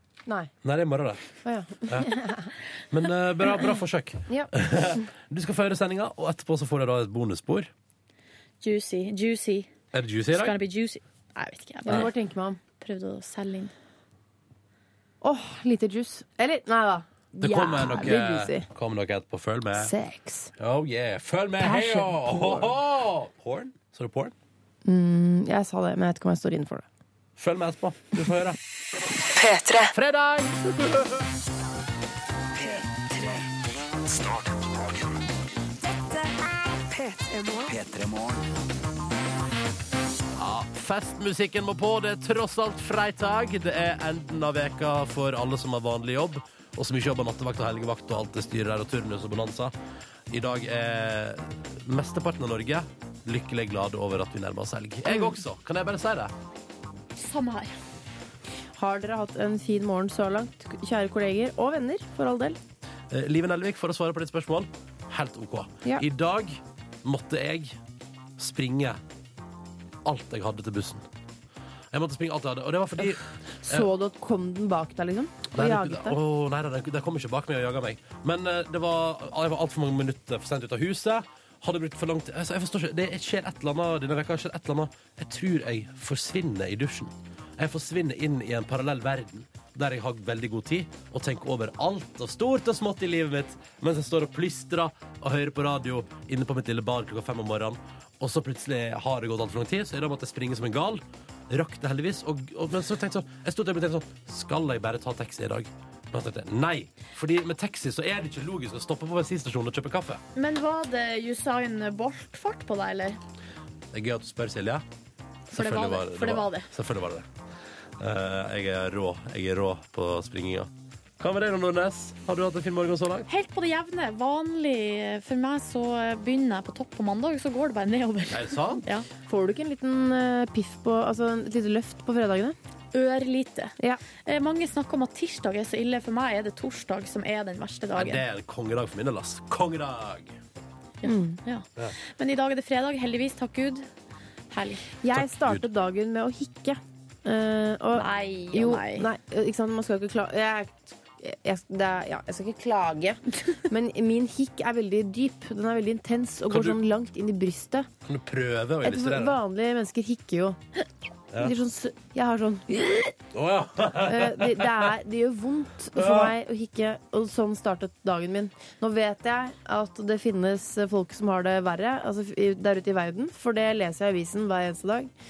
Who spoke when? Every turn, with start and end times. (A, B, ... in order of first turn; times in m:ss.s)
0:00.6-0:01.2 A
0:01.4-0:02.5 B
0:02.9-0:07.7 A
0:08.6-0:09.7 C
0:09.9-0:10.6 A
0:10.3-0:12.1 C
0:11.8-0:12.6 B
0:12.8-0:13.7 C
0:15.2-0:18.6 B
0:17.4-0:19.9 A
0:19.7-0:20.5 B
0:20.6-0:24.3 A
0:21.6-0:22.7 B
0:24.8-0:26.8 B
0:27.4-0:28.6 A
0:29.3-0:29.9 D
0:29.9-0:31.2 A
0:32.6-0:33.4 D
0:37.1-0:38.4 D
0:40.4-0:49.7 A
0:50.3-0:56.3 A
0:55.1-0:55.3 B
0:57.2-0:57.7 C
0:58.8-1:02.6 B
1:03.1-1:07.7 A
1:08.4-1:09.0 A
1:10.0-1:11.0 A
1:11.9-1:13.9 A
1:13.6-1:16.2 B
1:15.5-1:50.2 A
1:50.4-1:53.2 C
1:53.9-1:54.8 A
1:55.5-1:56.7 C
1:55.5-1:57.2 A
1:58.0-2:03.2 A
2:03.3-2:09.1 C
2:08.3-2:08.8 A
2:09.3-2:12.6 B
2:12.9-2:13.7 C
2:14.2-2:18.2 C
2:17.9-2:20.4 A
2:21.0-2:21.6 C
2:21.0-2:21.4 B
2:22.2-2:23.8 C
2:24.5-2:24.8 C
2:25.0-2:37.9 B
2:25.1-2:25.6 A
2:27.9-2:29.1 C
2:36.5-2:36.8 A
2:38.0-2:39.4 A
2:38.8-2:40.8 B
2:41.4-2:43.1 B
2:43.3-2:44.9 A
2:43.9-2:55.1 B
2:46.0-2:46.3 A